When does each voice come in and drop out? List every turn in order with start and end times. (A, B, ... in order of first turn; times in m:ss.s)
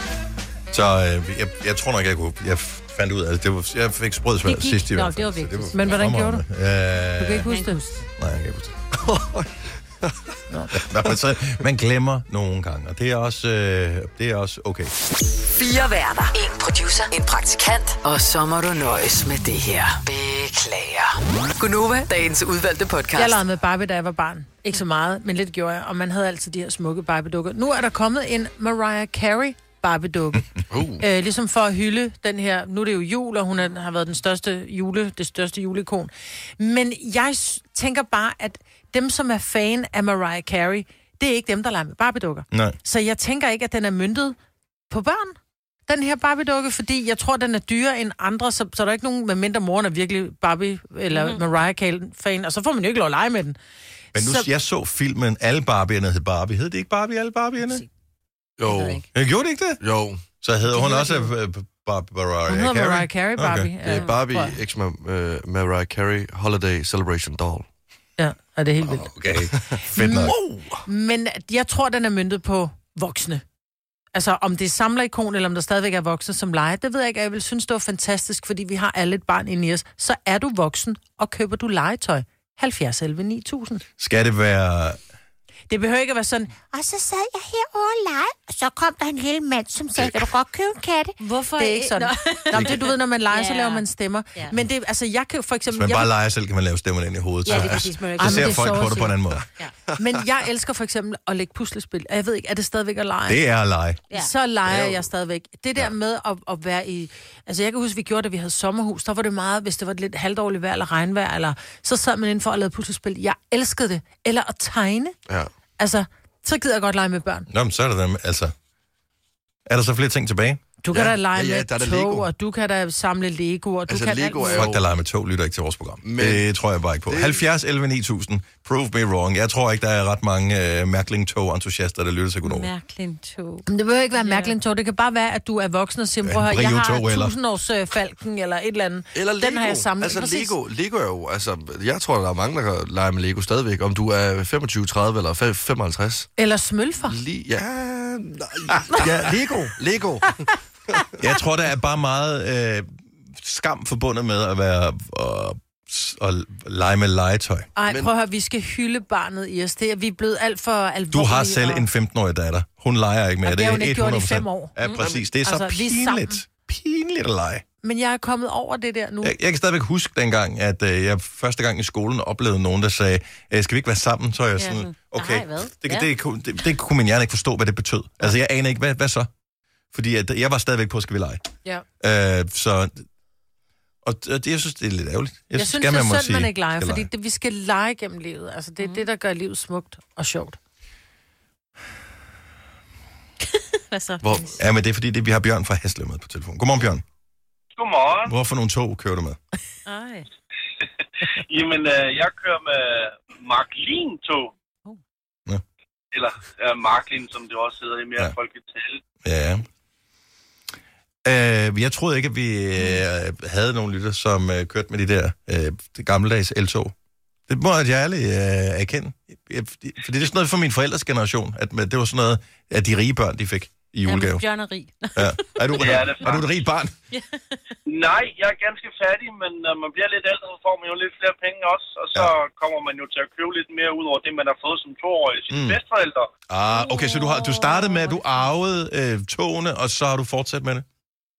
0:00.7-0:07.6 A
0:04.5-0:06.0 B
0:05.7-0:06.4 C
0:07.2-0:07.9 C
0:07.4-0:08.0 B
0:08.2-0:08.8 A
0:09.0-0:10.3 D
0:10.7-0:14.9 A
0:15.6-0:23.4 E
0:23.1-0:44.4 C
0:30.7-0:31.0 D
0:42.5-0:42.8 A
0:44.9-0:53.6 C
0:51.1-0:51.4 B
0:54.2-0:54.5 C
0:54.2-0:57.8 A
0:58.6-0:59.1 D
0:58.7-0:59.0 B
0:59.1-0:59.8 A
0:59.8-1:00.2 D
1:00.4-1:03.8 A
1:00.7-1:01.3 C
1:02.5-1:04.6 C
1:03.9-1:07.7 D
1:03.9-1:04.2 B
1:08.2-1:09.1 C
1:08.8-1:10.4 A
1:09.7-1:10.6 D
1:09.9-1:13.4 C
1:14.1-1:23.8 C
1:24.0-1:25.0 A
1:25.7-1:36.1 C
1:30.0-1:30.2 A
1:31.2-1:33.8 B
1:35.7-1:39.4 A
1:37.4-1:38.9 B
1:37.5-1:37.8 D
1:38.2-1:39.1 C
1:40.0-1:43.5 C
1:43.3-1:44.0 A
1:44.1-1:55.2 C
1:55.8-1:57.5 C
1:57.5-1:58.5 A
1:59.7-2:00.6 A
2:00.8-2:04.7 C
2:00.9-2:02.3 D
2:03.9-2:04.8 D
2:04.6-2:12.7 A
2:06.0-2:06.5 D
2:07.1-2:07.4 D
2:12.4-2:14.6 B
2:13.7-2:20.5 C
2:16.2-2:17.4 A
2:19.1-2:26.3 D
2:26.4-2:27.2 C
2:27.0-2:31.0 D
2:28.7-2:29.4 A
2:31.2-2:37.7 A
2:37.8-2:41.9 C
2:37.9-2:38.1 D
2:41.1-2:47.6 A
2:43.4-2:46.4 C
2:44.8-2:45.1 B
2:47.8-2:49.4 C
2:49.2-2:59.3 A
2:54.6-2:56.1 B
2:59.9-3:01.4 A
3:02.0-3:03.1 A
3:04.0-3:07.1 A
3:05.6-3:10.6 C
3:08.8-3:09.1 B
3:14.0-3:14.2 B
3:14.2-3:14.6 D
3:14.6-3:17.0 A
3:17.8-3:18.3 F
3:18.3-3:19.4 A
3:19.9-3:20.3 B
3:21.4-3:24.5 F
3:26.1-3:29.0 F
3:29.2-3:29.6 A
3:31.2-3:36.9 A
3:37.5-3:44.4 A
3:44.0-3:46.4 B
3:45.2-3:46.9 A
3:45.8-3:46.4 F
3:47.1-3:47.6 B
3:47.9-3:56.3 F
3:55.5-3:55.8 A
3:56.5-4:00.8 A
3:56.7-3:58.2 B